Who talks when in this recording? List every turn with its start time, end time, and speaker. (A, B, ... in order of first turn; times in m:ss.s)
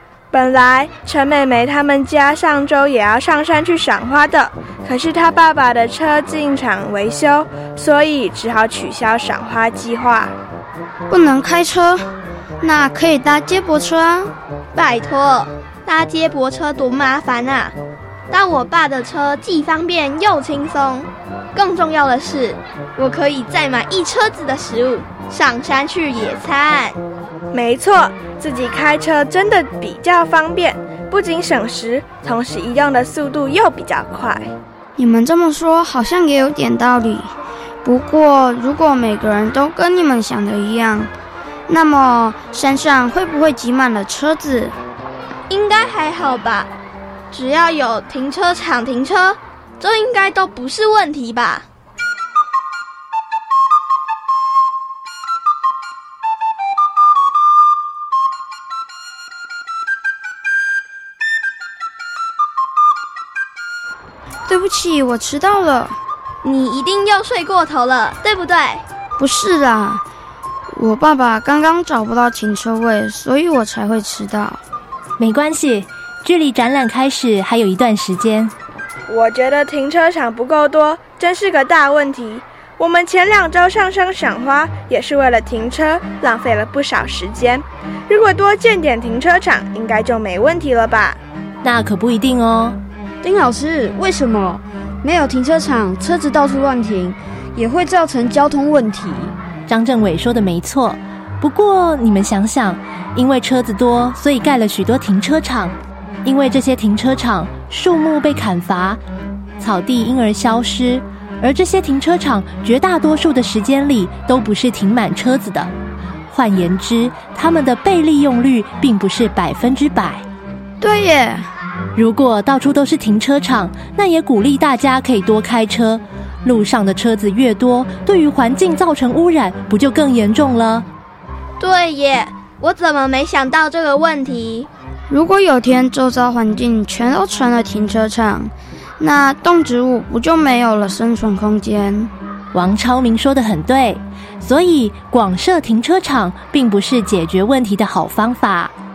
0:00.3-0:10.3 A
0:11.1-0:12.0 B
0:12.6-0:14.3 B
0:14.7-0:17.7 C
0:18.3-0:27.0 C
0:27.5-0:34.5 A
0:35.0-0:37.3 B
0:37.8-0:41.1 B
0:41.7-0:44.7 B
0:45.5-0:46.7 C
0:47.3-0:51.6 C
1:04.5-1:05.9 B
1:06.4-1:08.8 C
1:09.2-1:10.0 B
1:10.7-1:14.6 B
1:15.2-1:18.5 D
1:19.1-1:31.2 A
1:31.6-1:32.8 D
1:33.2-1:39.3 E
1:39.7-1:45.7 D
1:46.2-1:49.0 D
1:49.6-1:55.7 D
1:56.3-2:00.2 D
2:00.8-2:01.4 B
2:01.9-2:10.8 D
2:11.6-2:14.7 C
2:15.1-2:22.1 B
2:22.5-2:28.7 D